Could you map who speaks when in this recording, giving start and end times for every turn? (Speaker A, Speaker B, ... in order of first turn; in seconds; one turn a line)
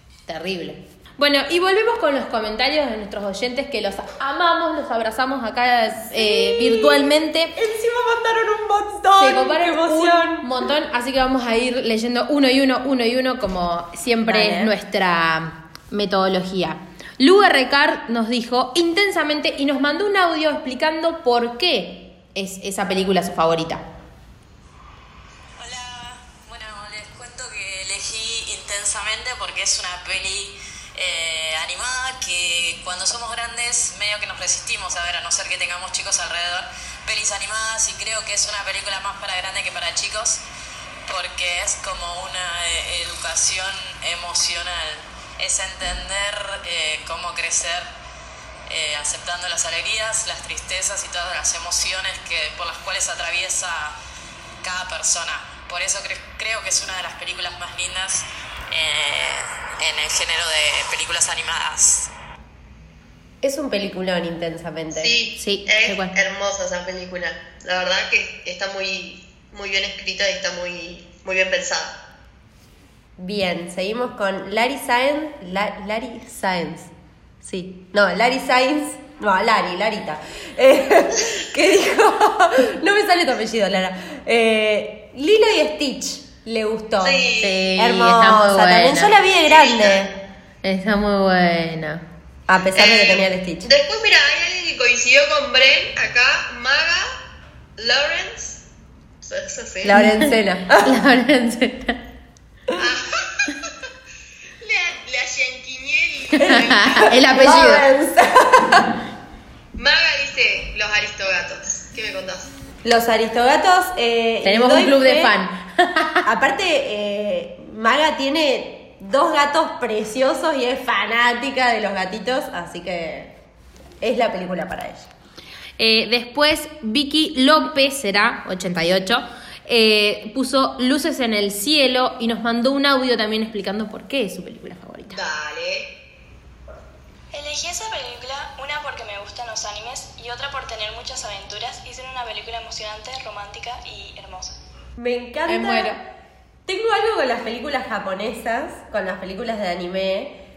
Speaker A: 0.3-7.5
Speaker B: 6.1-10.5
Speaker A: 9.2-23.8
Speaker B: 14.2-14.7
Speaker C: 25.6-40.4
Speaker C: 41.1-47.9
Speaker C: 48.7-53.9
Speaker C: 54.6-62.1
Speaker B: 63.4-65.1
Speaker D: 64.9-72.0
Speaker A: 65.4-66.1
Speaker B: 73.2-87.2
Speaker D: 87.0-87.7
Speaker A: 87.4-89.2
Speaker B: 87.8-90.1
Speaker D: 89.4-90.1
Speaker A: 90.6-92.0
Speaker B: 92.5-93.7
Speaker D: 92.8-97.1
Speaker D: 97.8-98.6
Speaker D: 99.2-99.9
Speaker B: 99.8-101.0
Speaker A: 99.9-100.3
Speaker A: 100.8-102.0
Speaker D: 102.8-103.7
Speaker D: 104.6-107.1
Speaker A: 106.4-107.9
Speaker B: 106.4-108.9
Speaker D: 109.8-112.5
Speaker B: 112.8-115.3
Speaker A: 114.4-116.2
Speaker B: 116.2-123.3
Speaker B: 124.0-125.1
Speaker A: 125.8-135.2
Speaker D: 135.1-135.9
Speaker E: 137.3-144.6
Speaker B: 145.0-145.9
Speaker A: 145.5-146.0
Speaker B: 146.7-150.4